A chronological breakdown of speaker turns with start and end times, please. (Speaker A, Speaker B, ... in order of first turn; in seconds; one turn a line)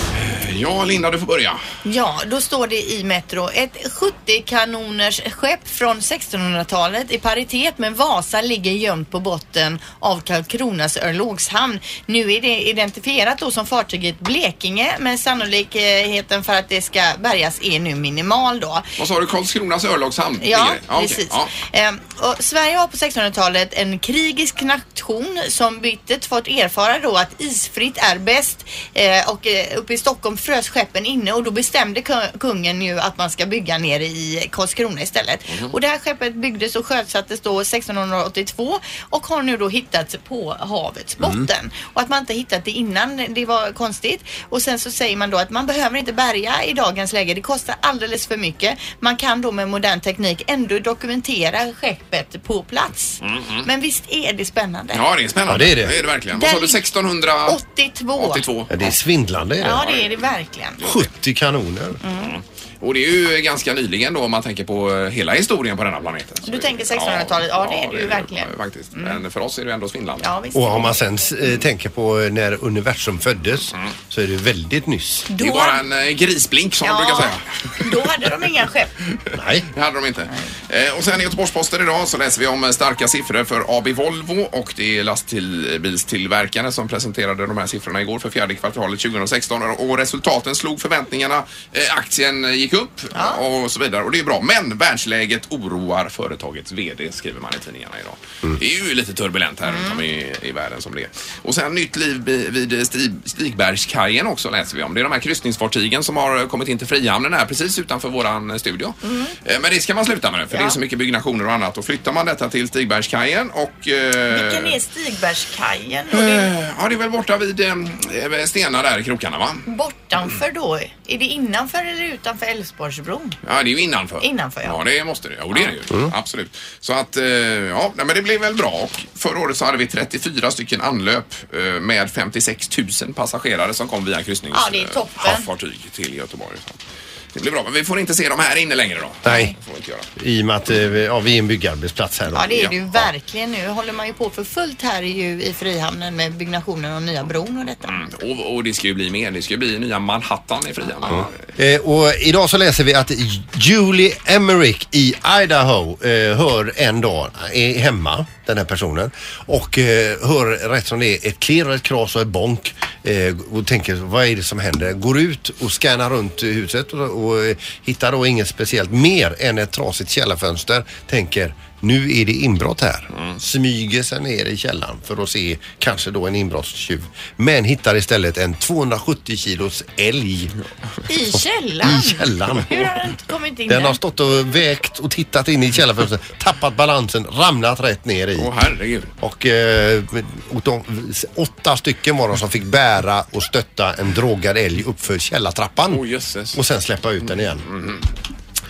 Speaker A: 0.2-1.6
Speaker B: 1.9-18.9
Speaker A: 19.0-21.5
Speaker B: 20.4-55.0
Speaker A: 35.5-35.7
Speaker C: 41.2-41.5
Speaker A: 53.2-53.7
Speaker A: 54.9-57.6
Speaker C: 55.5-56.0
Speaker B: 56.3-56.8
Speaker B: 57.5-58.5
Speaker A: 58.1-58.8
Speaker C: 58.7-59.9
Speaker B: 59.6-60.9
Speaker C: 60.8-62.0
Speaker B: 62.0-62.4
Speaker A: 62.2-70.3
Speaker B: 66.5-69.2
Speaker B: 70.2-71.0
Speaker C: 70.5-75.3
Speaker B: 75.3-75.8
Speaker A: 75.4-78.0
Speaker B: 76.8-78.9
Speaker A: 79.2-114.8
Speaker C: 79.3-79.7
Speaker B: 93.2-93.4
Speaker B: 99.7-100.0
Speaker B: 109.0-109.3
Speaker B: 110.5-110.8
Speaker B: 114.3-116.5
Speaker A: 116.1-119.7
Speaker B: 119.7-123.4
Speaker A: 123.5-136.8
Speaker B: 124.2-124.8
Speaker B: 134.5-135.5
Speaker A: 137.3-140.1
Speaker C: 139.2-139.6
Speaker C: 140.2-143.1
Speaker B: 142.3-147.9
Speaker A: 147.9-151.4
Speaker C: 151.1-180.5
Speaker B: 181.1-184.0
Speaker C: 181.3-182.9
Speaker C: 183.7-188.5
Speaker A: 188.4-189.1
Speaker C: 189.2-197.7
Speaker A: 195.9-196.6
Speaker A: 197.7-198.1